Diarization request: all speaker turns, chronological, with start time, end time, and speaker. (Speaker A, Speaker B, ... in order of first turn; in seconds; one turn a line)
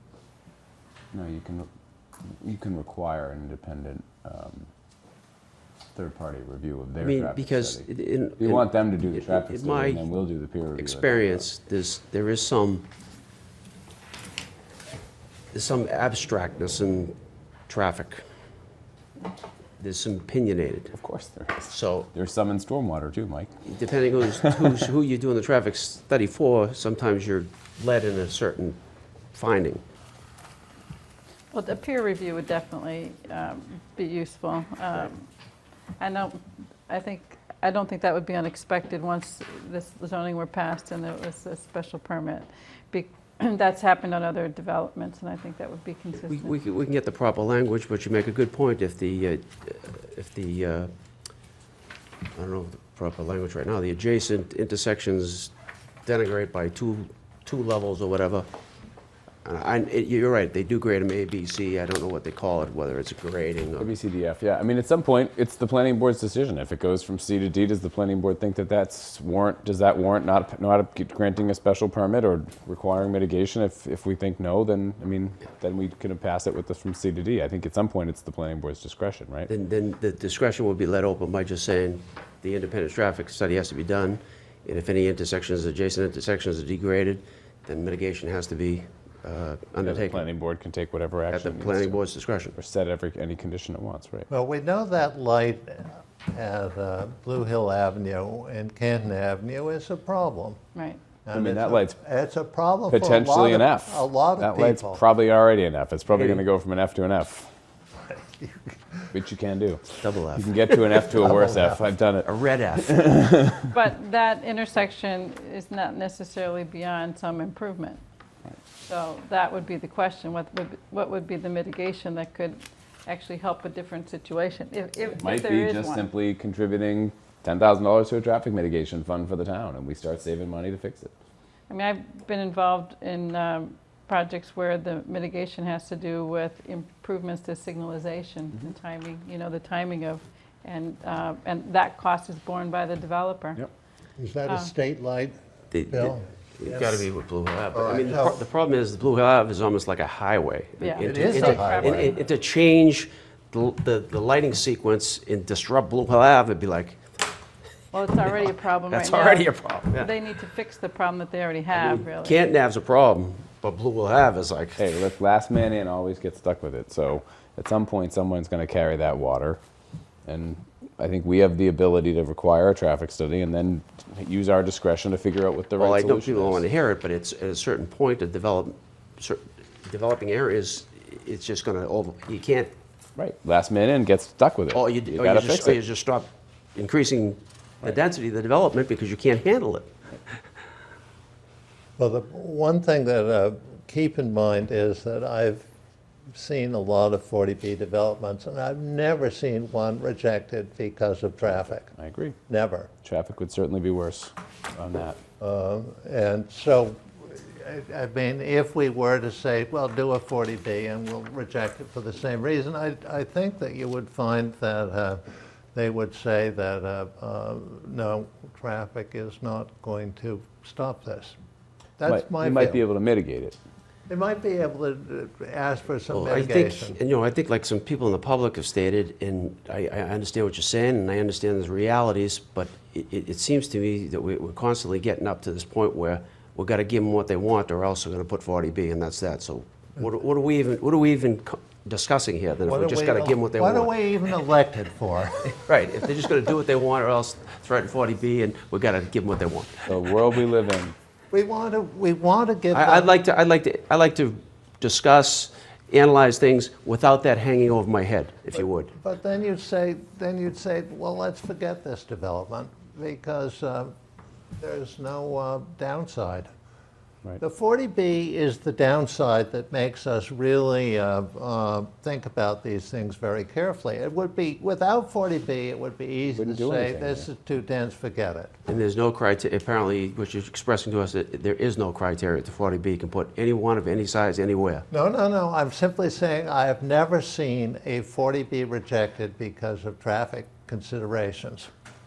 Speaker A: 1.1-1.7
Speaker A: 2.4-4.7
Speaker A: 6.0-7.9
Speaker B: 7.0-10.0
Speaker A: 8.4-11.4
Speaker B: 10.8-12.9
Speaker B: 15.5-17.1
Speaker B: 17.7-18.2
Speaker B: 19.8-21.0
Speaker A: 20.9-23.5
Speaker B: 21.7-22.1
Speaker B: 23.6-28.8
Speaker B: 29.3-29.8
Speaker C: 31.5-35.3
Speaker C: 36.0-46.5
Speaker B: 46.3-50.9
Speaker B: 52.3-55.5
Speaker B: 56.0-58.5
Speaker B: 59.5-63.9
Speaker A: 63.8-79.5
Speaker B: 79.5-90.2
Speaker A: 89.8-92.0
Speaker B: 91.3-92.6
Speaker A: 92.5-94.3
Speaker D: 94.3-100.6
Speaker C: 100.8-101.1
Speaker D: 101.3-105.0
Speaker A: 101.3-102.0
Speaker A: 102.9-107.5
Speaker B: 106.1-106.4
Speaker D: 108.1-108.8
Speaker A: 109.1-112.3
Speaker B: 110.0-110.6
Speaker D: 111.0-111.8
Speaker B: 112.2-113.0
Speaker A: 112.8-113.7
Speaker C: 113.7-118.0
Speaker C: 118.9-126.1
Speaker A: 125.2-131.1
Speaker C: 131.7-143.6
Speaker D: 144.2-145.3
Speaker B: 145.7-157.0
Speaker D: 145.9-147.1
Speaker D: 147.7-148.4
Speaker C: 150.8-152.2
Speaker D: 151.0-152.1
Speaker C: 157.9-162.4
Speaker B: 158.9-160.1
Speaker B: 161.7-164.8
Speaker A: 164.8-169.6
Speaker A: 170.3-176.6
Speaker B: 175.8-182.7
Speaker A: 183.2-185.8
Speaker B: 184.7-189.9
Speaker D: 192.0-195.7
Speaker D: 196.3-201.9
Speaker A: 201.9-202.4
Speaker D: 202.5-202.9
Speaker A: 203.0-205.2
Speaker D: 205.4-215.2
Speaker D: 215.7-221.4
Speaker D: 222.0-222.8
Speaker A: 222.1-223.6
Speaker D: 224.1-227.0
Speaker B: 226.1-243.9
Speaker D: 242.7-245.6
Speaker B: 245.6-249.9
Speaker A: 249.9-250.9
Speaker D: 251.3-253.2
Speaker B: 252.7-258.9
Speaker D: 258.9-263.9
Speaker D: 264.6-266.5
Speaker D: 267.4-278.6
Speaker A: 276.3-277.3
Speaker B: 278.7-284.9
Speaker D: 284.9-291.7